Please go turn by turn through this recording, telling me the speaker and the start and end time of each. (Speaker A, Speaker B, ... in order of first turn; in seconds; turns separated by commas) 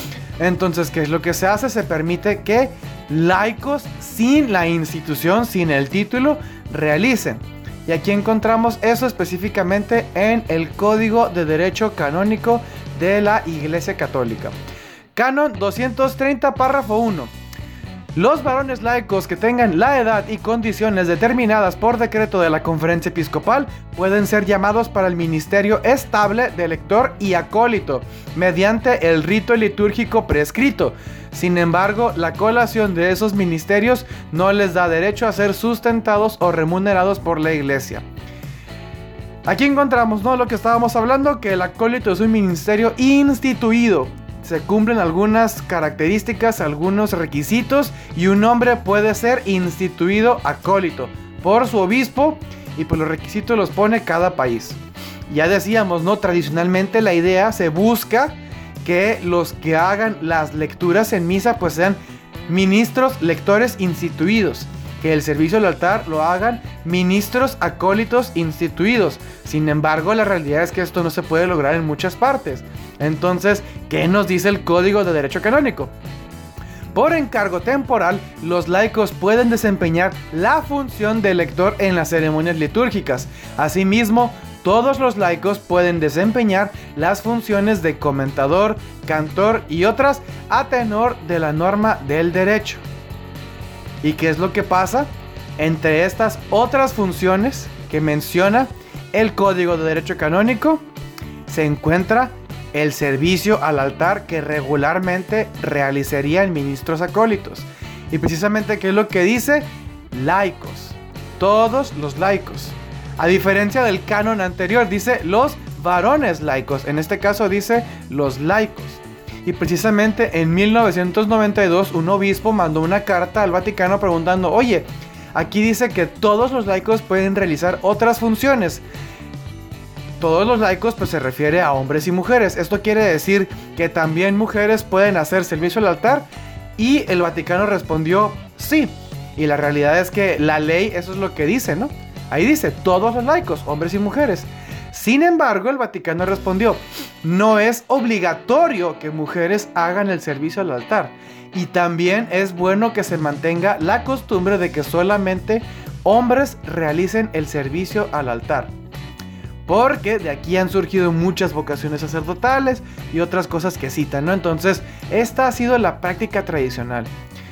Speaker A: 0.4-14.5, Speaker A: 15.2-17.3, Speaker A: 18.1-38.0, Speaker A: 39.5-75.9, Speaker A: 76.9-92.8, Speaker A: 94.0-100.8, Speaker A: 101.5-128.8, Speaker A: 130.2-158.7, Speaker A: 159.7-167.1